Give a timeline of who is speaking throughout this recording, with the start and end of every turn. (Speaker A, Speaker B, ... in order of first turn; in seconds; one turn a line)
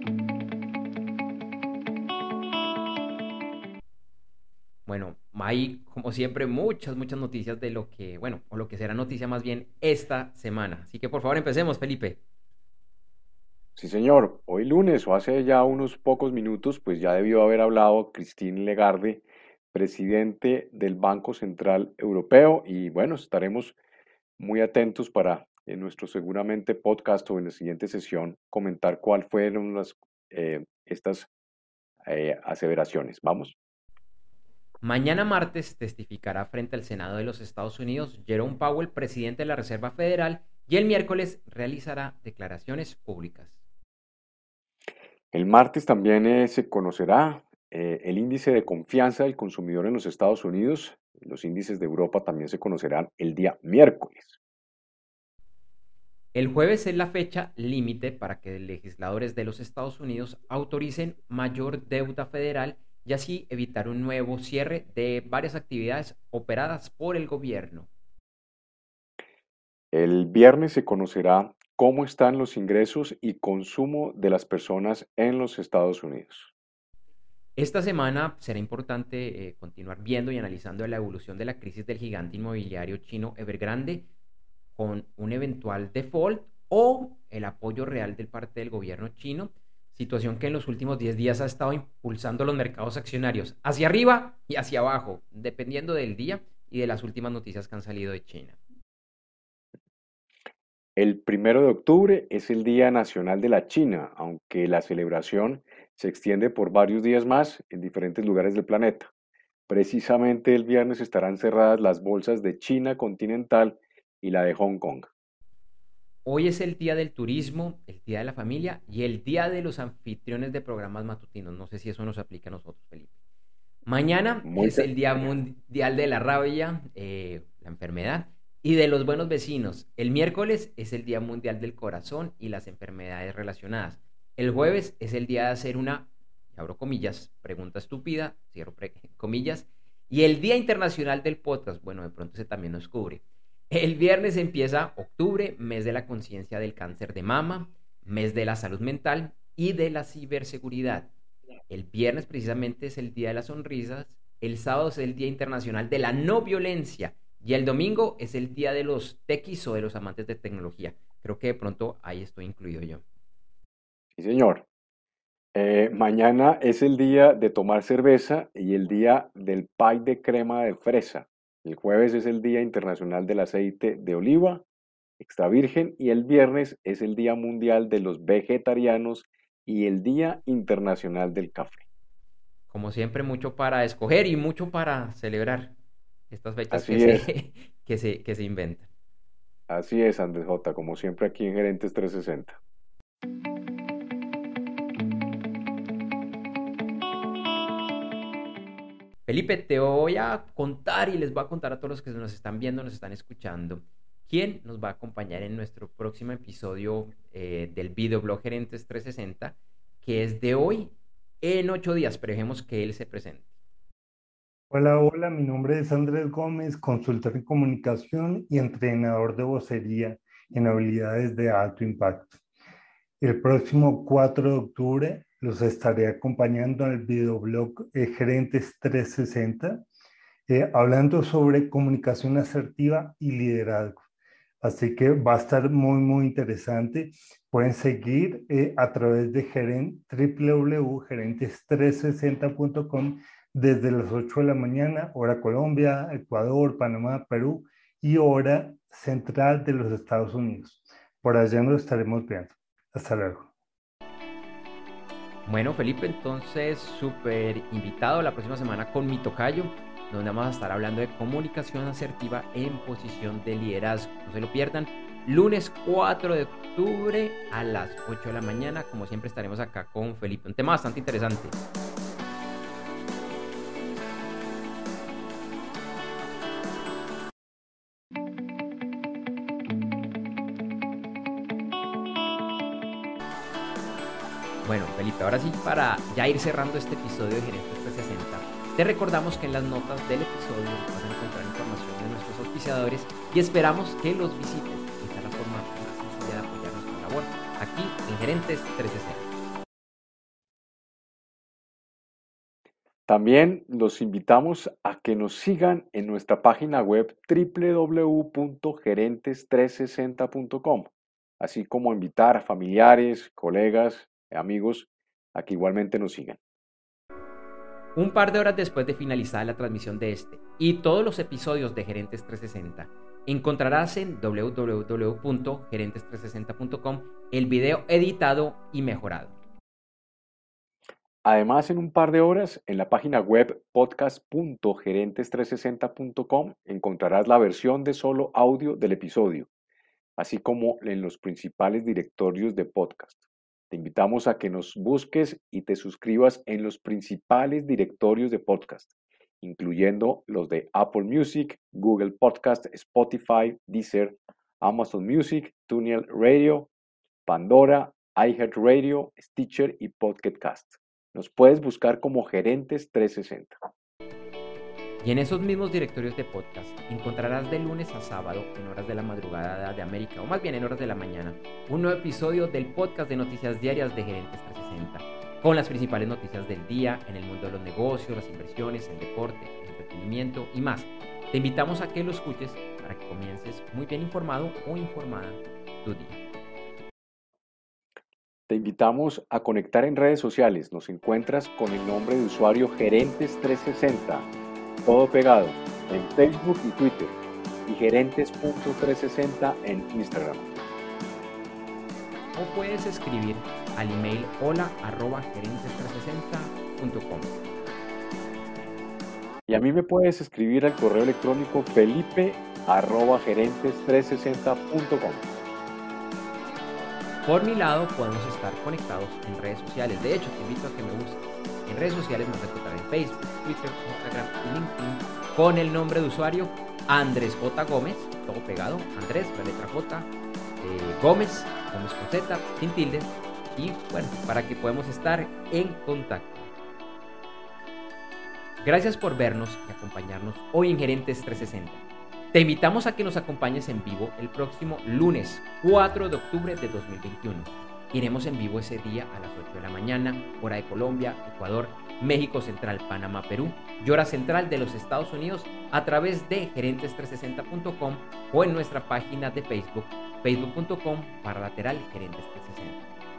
Speaker A: 4.9-12.2
Speaker B: 13.8-23.8
Speaker B: 24.4-31.3
Speaker B: 32.1-33.6
Speaker A: 34.8-43.6
Speaker B: 45.3-54.4
Speaker A: 56.3-67.9
Speaker B: 69.9-76.5
Speaker A: 77.6-84.1
Speaker A: 84.8-98.6
Speaker B: 101.0-109.1
Speaker B: 109.7-115.1
Speaker A: 116.2-123.1
Speaker A: 123.9-151.1
Speaker B: 124.4-124.9
Speaker A: 151.7-163.0
Speaker B: 164.2-164.7
Speaker B: 165.5-174.6
Speaker B: 175.2-181.8
Speaker A: 182.7-185.8
Speaker A: 186.3-188.9
Speaker B: 186.7-187.3
Speaker B: 189.7-192.6
Speaker A: 199.3-213.5
Speaker C: 214.7-222.4
Speaker C: 223.2-229.8
Speaker C: 230.5-234.0
Speaker C: 234.6-253.5
Speaker A: 255.5-271.6
Speaker A: 284.6-299.3
Speaker B: 303.1-316.4
Speaker A: 318.0-329.4
Speaker B: 331.2-339.5
Speaker B: 340.2-356.7
Speaker B: 357.3-363.6
Speaker A: 365.0-386.2
Speaker B: 388.5-394.3
Speaker B: 394.8-400.5
Speaker A: 402.4-407.4
Speaker B: 409.5-415.3
Speaker A: 417.3-430.1
Speaker A: 430.6-436.5
Speaker A: 438.6-441.8
Speaker A: 442.3-462.8